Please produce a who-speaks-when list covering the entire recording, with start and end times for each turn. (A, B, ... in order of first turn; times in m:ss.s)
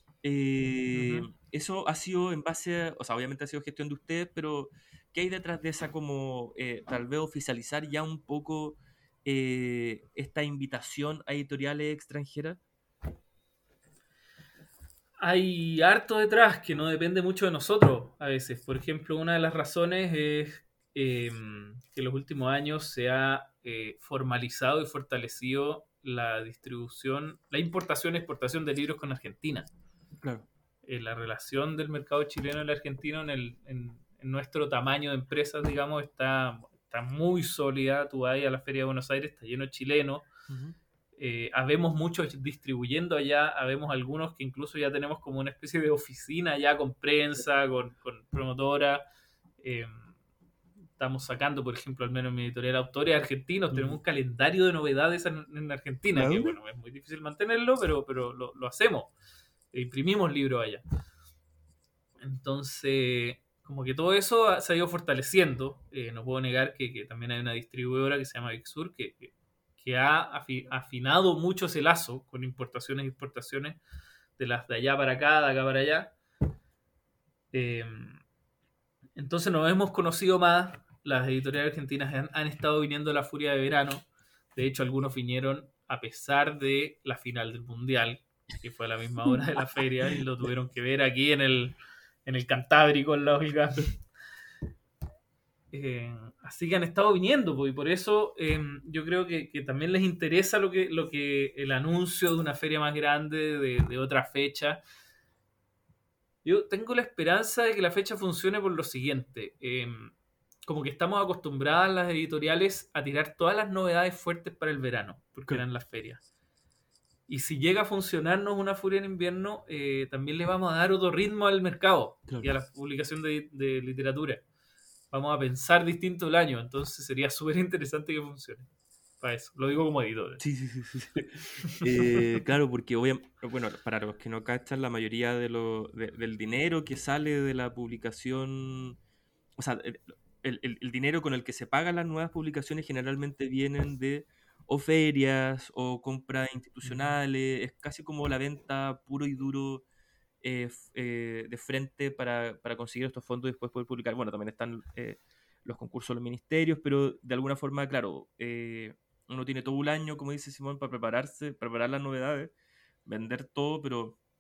0:00.2-0:12.6 A
0:00.9-0:01.3 B
0:15.2-0:29.7 B
0:30.8-0:40.3 B
0:40.5-0:40.8 A
0:41.2-0:49.0 B
0:49.6-0:50.1 B
0:51.0-0:59.1 B
0:53.7-0:54.0 A
0:56.1-0:56.6 A
0:59.7-1:00.8 B
1:02.2-1:13.8 B
1:14.4-1:16.1 B
1:17.5-1:18.2 B
1:19.2-1:24.0 B
1:24.6-1:34.0 B
1:35.7-1:44.8 B
1:46.4-1:50.1 B
1:50.6-1:56.2 B
1:57.3-2:04.4 B
2:05.1-2:08.7 B
2:09.2-2:10.4 B
2:10.4-2:19.0 A
2:11.6-2:12.2 B
2:19.6-2:29.8 A
2:30.4-2:42.5 A
2:43.0-2:44.2 A